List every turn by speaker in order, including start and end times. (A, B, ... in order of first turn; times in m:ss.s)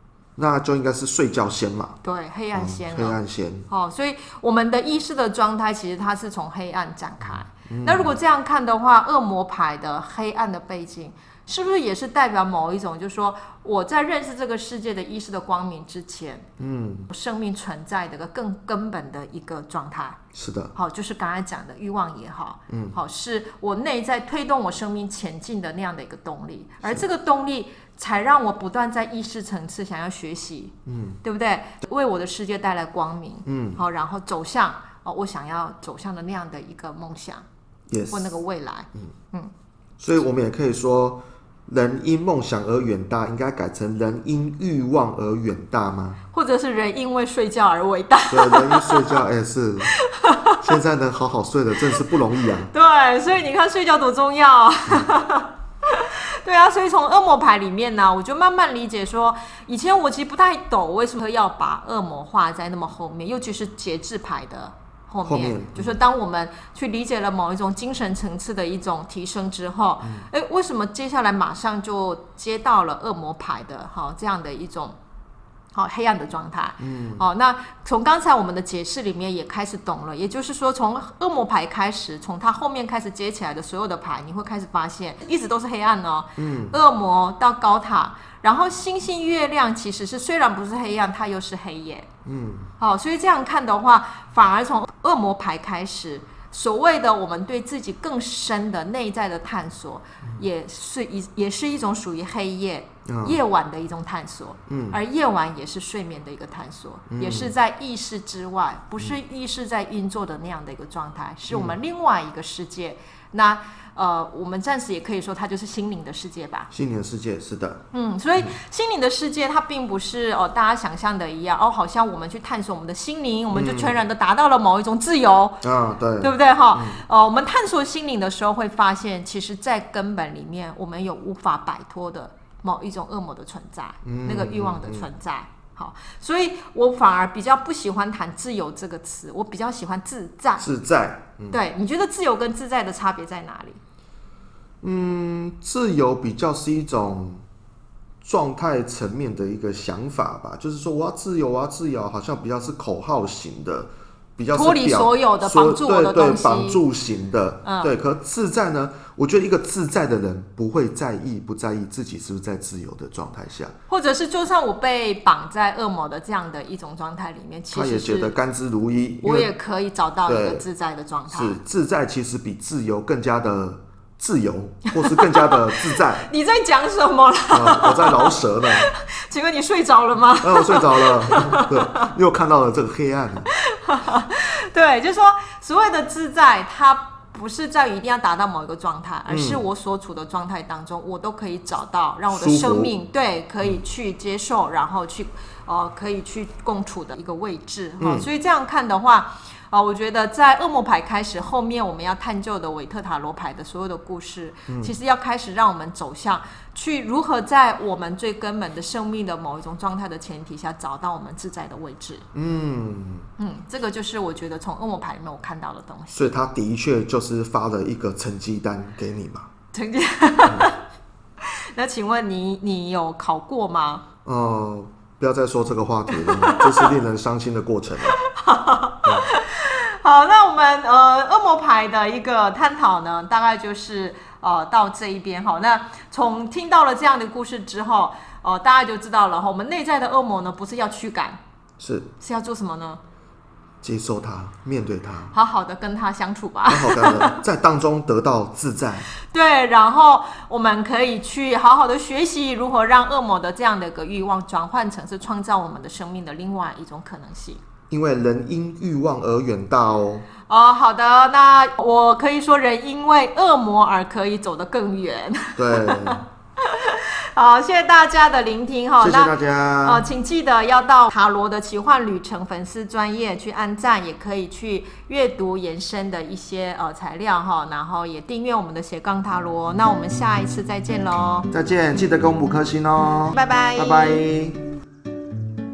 0:00.4-0:02.0 A
0:02.0-0:03.2 B
0:02.5-0:03.7 A
0:03.7-0:16.5 B
0:07.6-0:08.2 A
0:16.6-0:17.1 A
0:17.1-0:20.2 B
0:20.3-0:20.7 A
0:20.7-0:37.4 B
0:22.7-0:23.0 A
0:30.8-0:31.2 A
0:33.4-0:33.8 A
0:37.9-0:38.4 A
0:38.1-0:39.5 B
0:40.0-0:46.2 A
0:46.3-0:49.2 B
0:48.3-0:49.9 A
0:49.9-0:50.6 B
0:50.6-0:52.7 A
0:52.6-1:15.0 B
1:05.2-1:06.0 A
1:10.0-1:10.3 A
1:15.7-1:32.1 B
1:16.8-1:17.2 A
1:26.4-1:26.8 A
1:32.2-1:32.7 A
1:32.8-1:56.7 B
1:43.0-1:43.4 A
1:44.7-1:45.0 A
1:47.1-1:47.5 A
1:51.5-1:51.8 A
1:56.7-1:57.8 A
1:57.9-2:05.6 B
2:03.5-2:04.0 A
2:05.6-2:07.0 A
2:06.2-2:20.7 B
2:14.0-2:15.1 A
2:20.6-2:21.6 A
2:21.5-2:23.8 B
2:24.8-2:27.4 A
2:28.2-2:43.7 A
2:34.5-2:36.8 B
2:37.6-2:37.9 B
2:43.9-2:48.3 B
2:47.7-2:49.5 A
2:49.2-2:51.6 B
2:50.2-2:50.6 A
2:51.3-2:56.3 A
2:54.9-3:02.1 B
2:57.5-2:58.9 A
3:00.4-3:03.5 A
3:03.5-3:32.2 B
3:09.3-3:09.6 A
3:12.3-3:12.9 A
3:18.0-3:18.3 A
3:24.7-3:25.0 A
3:32.3-3:33.3 A
3:33.4-3:36.3 B
3:36.1-3:39.5 A
3:39.7-3:40.8 B
3:40.4-3:40.7 A
3:41.4-3:44.0 B
3:44.2-3:48.2 A
3:46.1-3:46.9 B
3:48.2-4:01.4 B
4:01.8-4:02.1 A
4:02.2-4:03.0 B
4:03.8-4:05.3 A
4:05.3-4:07.4 B
4:06.7-4:09.1 A
4:09.2-4:17.6 B
4:17.9-4:20.3 A
4:20.5-4:41.5 B
4:25.6-4:26.2 A
4:29.0-4:30.0 A
4:41.5-4:44.6 A
4:43.3-4:44.2 B